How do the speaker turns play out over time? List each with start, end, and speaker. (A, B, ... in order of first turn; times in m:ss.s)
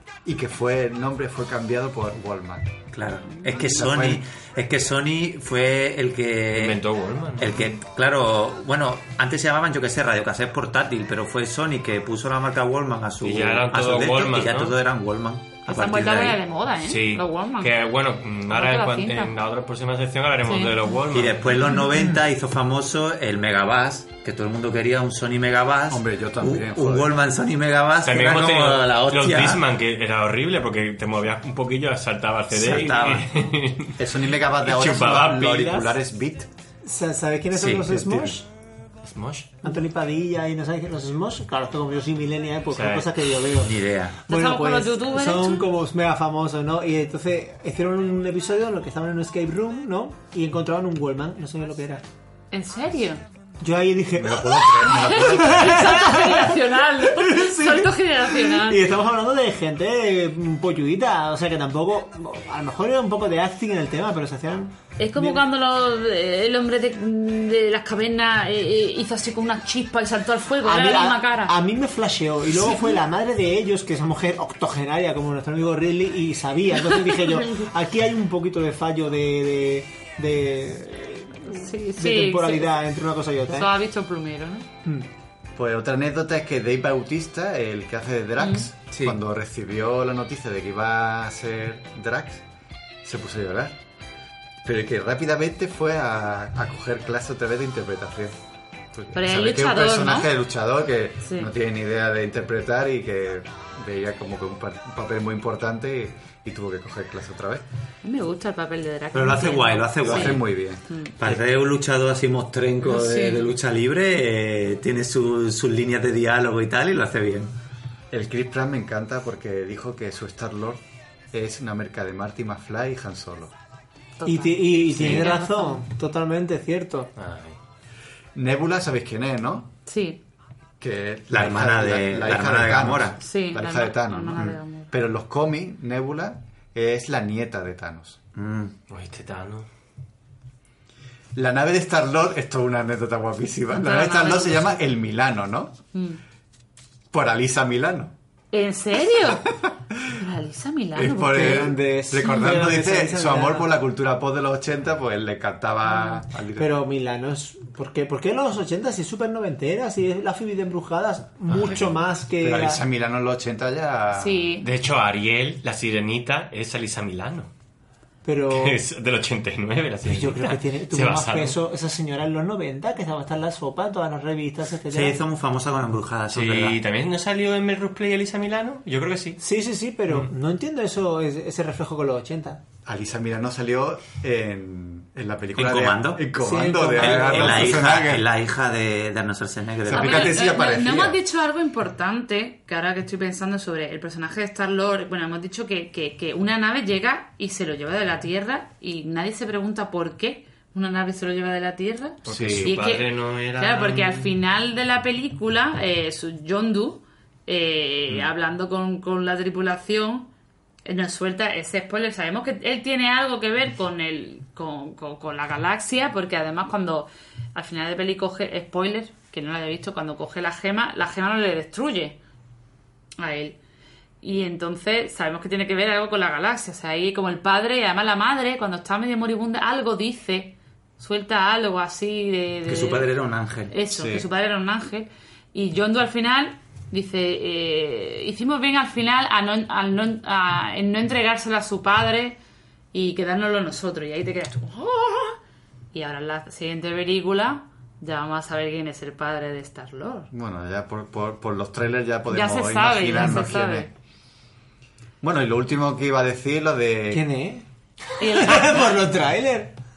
0:00.2-0:02.8 A
0:02.9-0:06.8 B
0:03.6-0:04.2 A
0:06.5-0:07.6 C
0:07.4-0:16.4 B
0:13.2-0:14.8 C
0:15.7-0:17.7 D
0:16.8-0:21.8 C
0:18.5-0:19.3 D
0:20.4-0:20.7 D
0:21.1-0:29.6 B
0:25.9-0:27.2 A
0:28.0-0:35.9 C
0:32.5-0:33.3 B
0:34.0-0:36.5 A
0:36.8-0:38.4 E
0:39.0-0:39.5 C
0:39.6-0:43.7 E
0:42.7-0:43.1 C
0:43.6-0:44.2 B
0:44.3-0:52.0 E
0:44.3-0:45.6 D
0:52.5-0:53.2 D
0:53.6-1:05.4 E
0:54.2-0:55.9 A
0:54.8-0:58.8 D
1:05.0-1:11.5 D
1:10.6-1:23.7 E
1:16.9-1:17.6 D
1:21.5-1:22.7 D
1:23.5-1:24.7 D
1:25.6-1:32.4 A
1:28.4-1:28.7 D
1:28.9-1:29.2 B
1:33.0-1:33.8 A
1:34.6-1:38.3 A
1:38.9-1:47.6 A
1:39.1-1:40.3 D
1:41.2-1:41.5 D
1:48.0-1:51.1 D
1:49.1-1:50.5 B
1:50.0-1:51.4 A
1:51.2-1:57.5 B
1:52.8-1:53.5 D
1:58.1-2:00.8 A
2:01.3-2:03.5 A
2:04.2-2:05.8 D
2:04.2-2:07.1 E
2:07.2-2:07.6 C
2:08.4-2:09.7 A
2:09.8-2:10.2 D
2:10.8-2:18.2 A
2:11.3-2:13.2 B
2:13.2-2:14.9 D
2:18.3-2:18.7 B
2:18.9-2:19.7 C
2:21.3-2:25.8 A
2:23.7-2:24.8 D
2:25.9-2:26.2 D
2:27.1-2:28.1 A
2:28.5-2:29.5 D
2:30.1-2:31.7 D
2:30.9-2:36.7 A
2:31.2-2:33.7 E
2:35.9-2:36.2 D
2:36.6-2:42.8 E
2:41.5-2:41.8 C
2:42.4-2:44.5 A
2:44.2-2:44.7 D
2:44.6-2:47.5 C
2:48.2-2:48.8 E
2:48.5-2:51.6 C
2:50.0-2:55.2 E
2:54.9-2:56.8 B
2:56.3-2:59.4 C
2:59.4-3:02.6 E
3:02.8-3:08.3 A
3:05.6-3:06.3 B
3:06.4-3:07.9 E
3:06.9-3:10.4 B
3:09.8-3:11.2 A
3:09.9-3:30.3 D
3:22.2-3:24.3 C
3:22.3-3:22.7 A
3:30.8-3:42.2 D
3:43.2-3:43.6 D
3:44.2-3:53.1 D
3:52.6-3:53.7 B
3:53.7-4:02.4 D
3:53.9-3:54.2 A
4:02.9-4:05.4 D
4:05.9-4:10.3 D
4:10.3-4:13.9 A
4:12.3-4:13.9 D
4:15.2-4:17.3 A
4:17.1-4:17.6 E
4:18.2-4:18.9 D
4:18.2-4:19.7 E